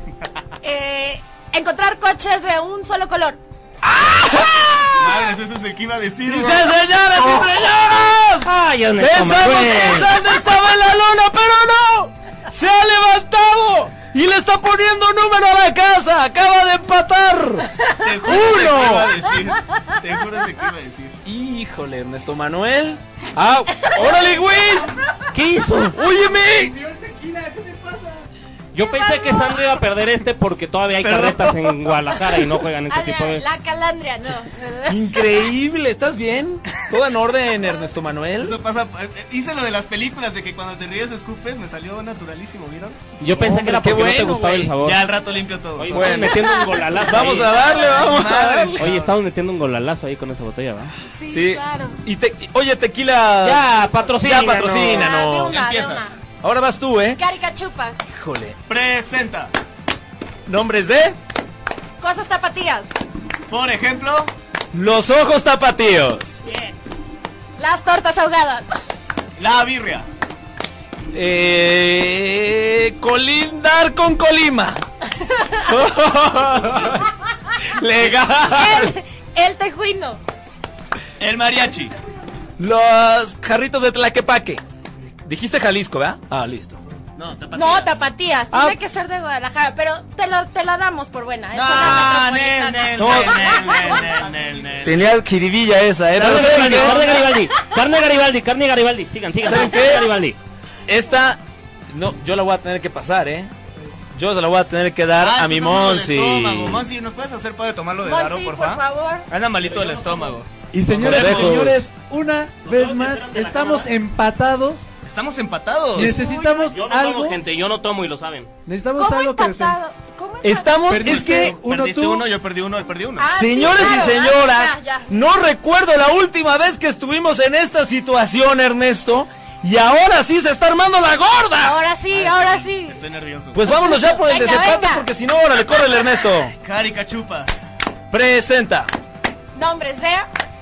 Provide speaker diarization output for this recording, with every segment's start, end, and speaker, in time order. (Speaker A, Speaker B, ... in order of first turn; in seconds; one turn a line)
Speaker A: 0.6-3.4
Speaker B: 3.8-5.3
Speaker C: 5.0-6.7
Speaker B: 6.2-19.1
Speaker D: 8.4-10.1
Speaker C: 18.0-21.1
Speaker B: 21.2-24.9
Speaker A: 23.7-25.3
Speaker D: 25.3-26.0
Speaker B: 25.9-26.7
Speaker E: 26.2-28.2
Speaker D: 28.7-33.4
Speaker A: 28.9-29.7
Speaker C: 31.0-32.4
Speaker A: 32.9-35.5
Speaker B: 34.9-38.6
Speaker C: 38.4-43.6
Speaker D: 43.2-45.0
Speaker B: 43.2-44.8
Speaker C: 44.8-46.5
Speaker D: 45.8-47.8
Speaker B: 45.9-48.8
Speaker A: 46.2-48.2
Speaker C: 47.6-49.2
Speaker D: 48.8-50.9
Speaker A: 51.0-52.0
Speaker B: 51.3-55.6
Speaker D: 53.4-55.1
Speaker A: 54.8-56.2
Speaker C: 55.2-56.2
Speaker B: 56.4-57.2
Speaker A: 57.2-58.0
Speaker B: 58.1-58.6
Speaker C: 58.7-59.5
Speaker B: 60.5-61.2
Speaker A: 62.0-62.9
Speaker C: 63.5-64.3
Speaker B: 64.7-66.4
Speaker A: 67.6-68.7
Speaker C: 69.4-70.1
Speaker B: 71.1-74.8
Speaker A: 75.2-75.7
Speaker B: 75.7-77.1
Speaker C: 76.6-77.0
Speaker B: 77.6-78.9
Speaker A: 78.5-80.2
Speaker C: 81.2-81.9
Speaker B: 82.6-84.6
Speaker B: 85.2-86.8
Speaker C: 87.2-88.1
Speaker A: 87.5-94.2
Speaker B: 88.5-88.8
Speaker C: 91.5-95.1
Speaker B: 91.7-92.2
Speaker B: 93.0-93.6
Speaker B: 94.8-97.2
Speaker C: 96.1-97.4
Speaker D: 96.2-100.4
Speaker B: 99.4-100.1
Speaker A: 99.5-100.0
Speaker B: 100.8-103.5
Speaker B: 104.1-106.8
Speaker C: 105.2-111.6
Speaker A: 108.0-109.3
Speaker D: 109.6-110.3
Speaker E: 110.7-114.8
Speaker B: 111.0-111.9
Speaker D: 112.6-113.9
Speaker C: 115.0-116.2
Speaker E: 115.9-117.4
Speaker A: 116.0-116.8
Speaker D: 116.7-118.5
Speaker E: 118.6-119.8
Speaker A: 119.0-121.2
Speaker B: 120.4-121.6
Speaker E: 120.9-122.3
Speaker C: 121.0-123.3
Speaker A: 123.2-125.1
Speaker B: 123.3-131.8
Speaker A: 131.6-133.0
Speaker C: 132.1-133.6
Speaker B: 133.5-136.5
Speaker A: 133.7-135.1
Speaker C: 136.6-137.6
Speaker B: 138.1-138.9
Speaker A: 139.5-140.3